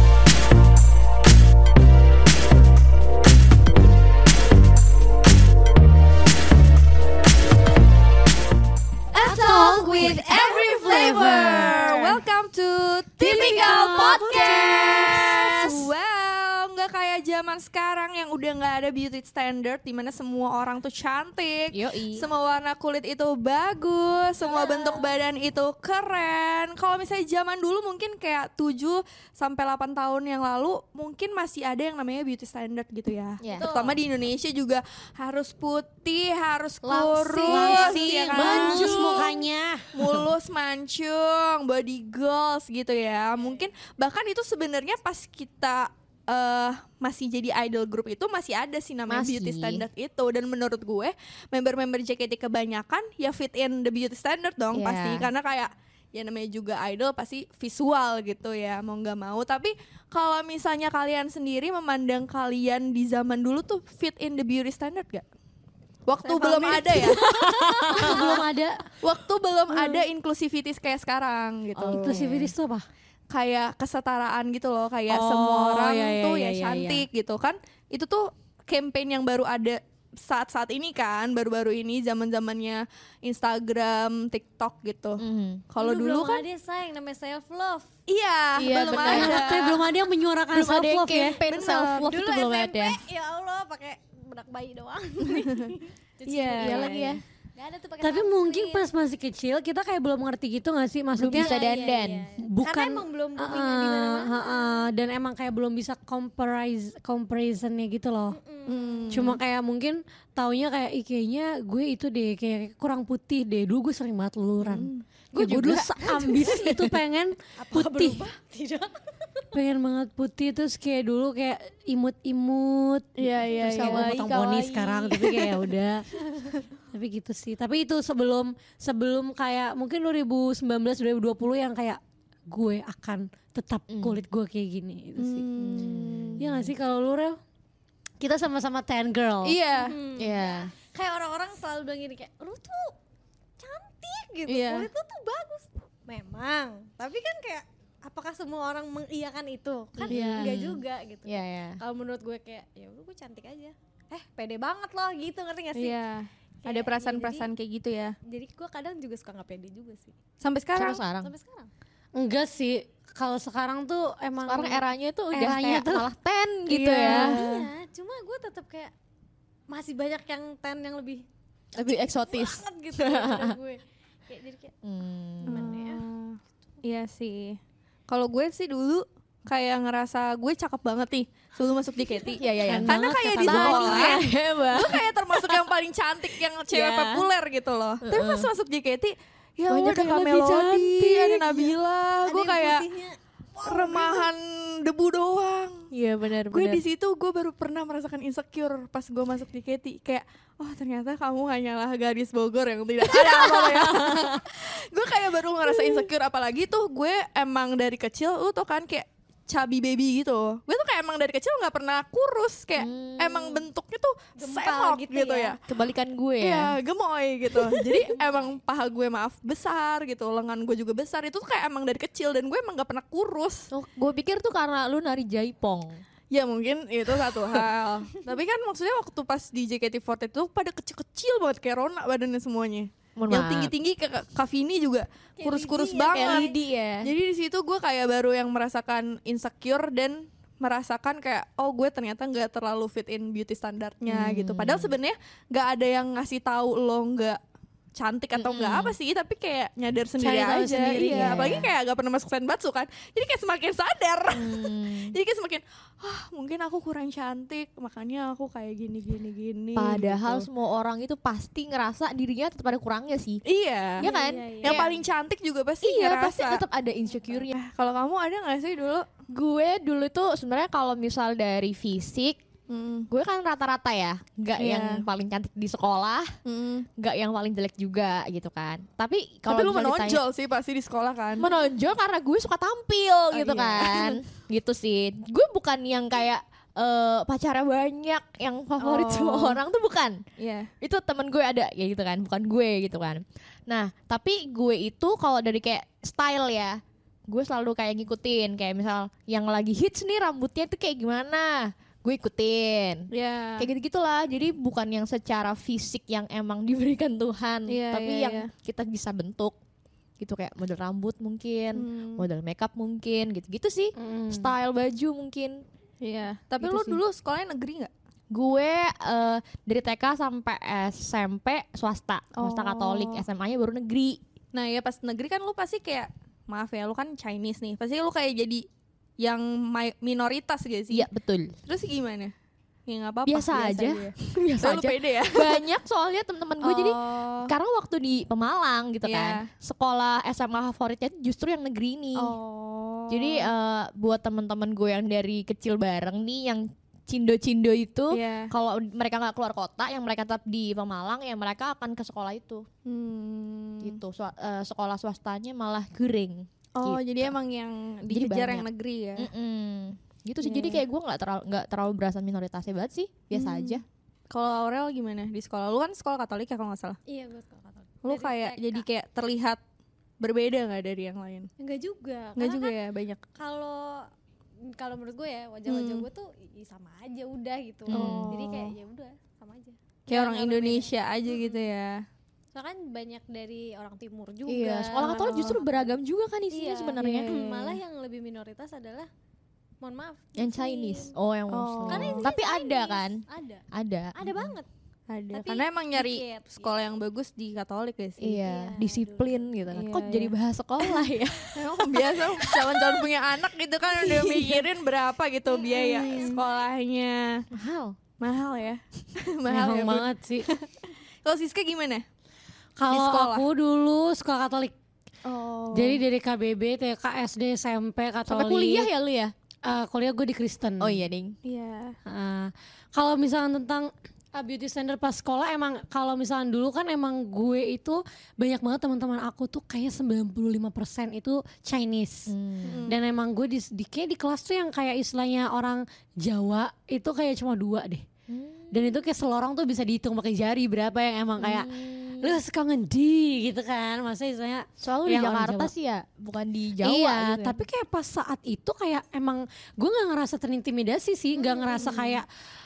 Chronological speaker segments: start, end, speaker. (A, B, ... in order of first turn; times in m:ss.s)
0:09.1-0:39.3 A
0:09.2-0:12.0 B
0:11.4-0:11.8 C
0:13.2-0:15.3 B
0:13.2-0:15.9 C
0:21.7-0:22.2 C
0:24.4-0:25.1 D
0:33.4-0:33.8 C
0:33.5-0:34.0 D
0:36.8-0:39.2 C
0:37.4-0:40.2 B
0:39.9-1:05.2 A
0:43.4-0:43.6 D
0:49.1-0:49.8 C
0:54.7-0:55.3 C
1:06.1-1:08.4 A
1:06.2-1:08.4 D
1:07.9-1:08.8 B
1:09.0-1:12.3 A
1:11.8-1:12.5 C
1:11.8-1:12.8 B
1:13.3-1:26.4 A
1:15.1-1:17.0 B
1:25.2-1:25.6 C
1:25.8-1:27.9 D
1:28.1-1:29.8 A
1:28.6-1:29.5 C
1:29.0-1:31.4 B
1:30.5-1:33.0 C
1:31.5-1:32.1 A
1:32.0-1:38.9 D
1:35.3-1:35.7 A
1:36.3-1:37.1 A
1:36.5-1:37.2 C
1:38.0-1:41.6 B
1:41.2-1:42.3 C
1:41.3-1:44.9 D
1:42.4-1:48.4 B
1:48.3-1:49.2 D
1:48.7-1:49.4 A
1:49.1-1:58.2 B
1:54.6-1:55.0 A
1:55.3-1:56.9 C
1:57.6-1:59.4 D
1:59.5-2:06.0 B
2:03.2-2:05.6 C
2:03.5-2:04.1 A
2:06.9-2:17.4 B
2:13.9-2:14.2 C
2:15.2-2:16.3 A
2:15.6-2:16.7 C
2:18.2-2:19.6 B
2:19.4-2:20.0 A
2:19.7-2:23.0 D
2:20.2-2:20.7 C
2:23.6-2:36.0 D
2:24.5-2:24.9 A
2:29.9-2:31.8 C
2:30.1-2:30.6 A
2:35.7-2:38.2 A
2:36.6-2:37.5 D
2:38.2-2:40.2 D
2:40.4-2:41.0 A
2:40.7-2:41.3 C
2:41.2-2:41.7 D
2:42.1-2:46.1 B
2:44.5-2:47.7 C
2:46.7-2:47.4 A
2:47.0-2:48.9 D
2:49.7-2:51.2 D
2:51.7-2:53.6 C
2:51.9-2:54.7 D
2:54.8-2:55.7 C
2:55.4-2:56.0 D
2:55.5-3:12.8 A
3:02.4-3:05.6 C
3:02.6-3:04.3 B
3:06.7-3:07.2 C
3:08.1-3:08.5 C
3:09.7-3:11.7 C
3:12.2-3:14.3 D
3:13.6-3:15.8 A
3:15.9-3:16.8 C
3:16.5-3:35.6 A
3:23.1-3:24.4 C
3:32.8-3:33.6 C
3:34.4-3:35.5 D
3:35.7-3:36.7 C
3:36.4-3:43.7 A
3:38.0-3:38.6 D
3:43.7-3:46.0 C
3:46.3-3:56.5 A
3:53.2-3:53.7 C
3:55.4-3:56.6 D
3:56.1-3:57.1 C
3:57.0-4:07.4 A
4:04.1-4:05.0 C
4:08.0-4:20.5 A
4:08.4-4:08.9 C
4:10.2-4:11.6 B
4:10.9-4:11.7 C
4:14.3-4:15.2 C
4:19.8-4:23.4 C
4:23.4-4:24.1 A
4:24.0-4:25.0 C
4:24.0-4:24.8 D
4:24.6-4:26.6 A
4:25.8-4:27.6 C
4:27.3-4:29.1 A
4:29.3-4:32.4 C
4:32.7-4:33.1 A
4:33.1-4:36.3 C
4:34.6-4:35.0 A
4:36.4-4:36.9 A
4:37.0-4:40.2 C
4:39.5-4:41.5 A
4:41.4-4:50.2 C
4:43.3-4:44.2 A
4:48.8-4:49.6 A
4:50.4-4:50.7 A
4:50.8-5:03.1 C
5:03.1-5:03.7 A
5:03.6-5:09.6 C
5:07.7-5:08.5 A
5:10.2-5:15.6 C
5:11.7-5:12.2 A
5:14.0-5:14.5 B
5:16.0-5:17.9 A
5:16.6-5:17.0 C
5:18.3-5:24.2 C
5:22.4-5:23.2 A
5:24.5-5:28.6 A
5:29.2-5:31.1 A
5:30.9-5:31.5 C
5:31.6-5:32.3 A
5:32.9-5:35.7 A
5:33.3-5:42.3 C
5:36.6-5:37.5 A
5:39.0-5:39.5 A
5:42.2-5:43.5 A
5:43.1-5:52.6 C
5:48.1-5:48.5 A
5:52.8-5:54.0 A
5:53.8-5:57.3 C
5:56.7-5:59.3 A
5:58.1-5:58.6 C
5:59.2-6:03.8 C
6:00.4-6:00.8 A
6:03.3-6:07.0 A
6:07.1-6:08.8 D
6:08.0-6:09.6 A
6:10.2-6:11.5 A
6:11.6-6:12.7 D
6:12.4-6:13.2 A
6:13.4-6:14.1 D
6:14.6-6:21.6 D
6:15.7-6:16.0 A
6:17.9-6:18.6 C
6:17.9-6:18.5 A
6:20.1-6:22.0 A
6:22.5-6:25.9 D
6:24.5-6:27.8 C
6:25.1-6:25.6 A
6:26.5-6:29.1 D
6:27.0-6:27.4 A
6:29.8-6:31.2 D
6:30.4-6:34.5 C
6:31.5-6:32.3 A
6:31.9-6:33.6 D
6:34.1-6:34.7 D
6:35.1-6:38.4 A
6:35.3-6:36.8 D
6:38.2-6:43.0 C
6:38.4-6:39.5 D
6:39.7-6:47.4 A
6:44.0-6:44.6 C
6:45.4-6:46.6 D
6:45.7-6:46.4 C
6:47.5-6:48.0 C
6:48.2-6:50.7 A
6:49.5-6:50.5 B
6:51.2-6:52.0 A
6:52.8-6:54.7 B
6:52.9-6:53.5 A
6:55.2-6:56.0 A
6:55.7-6:58.9 B
6:58.3-6:59.3 C
6:59.6-7:01.0 B
7:00.8-7:01.4 C
7:01.4-7:02.0 A
7:02.0-7:12.3 B
7:12.3-7:12.8 C
7:12.6-7:13.0 A
7:12.9-7:18.0 B
7:18.3-7:19.0 C
7:18.7-7:25.7 B
7:21.4-7:22.4 C
7:24.8-7:27.6 C
7:26.8-7:32.3 B
7:31.4-7:31.7 D
7:31.7-7:32.2 C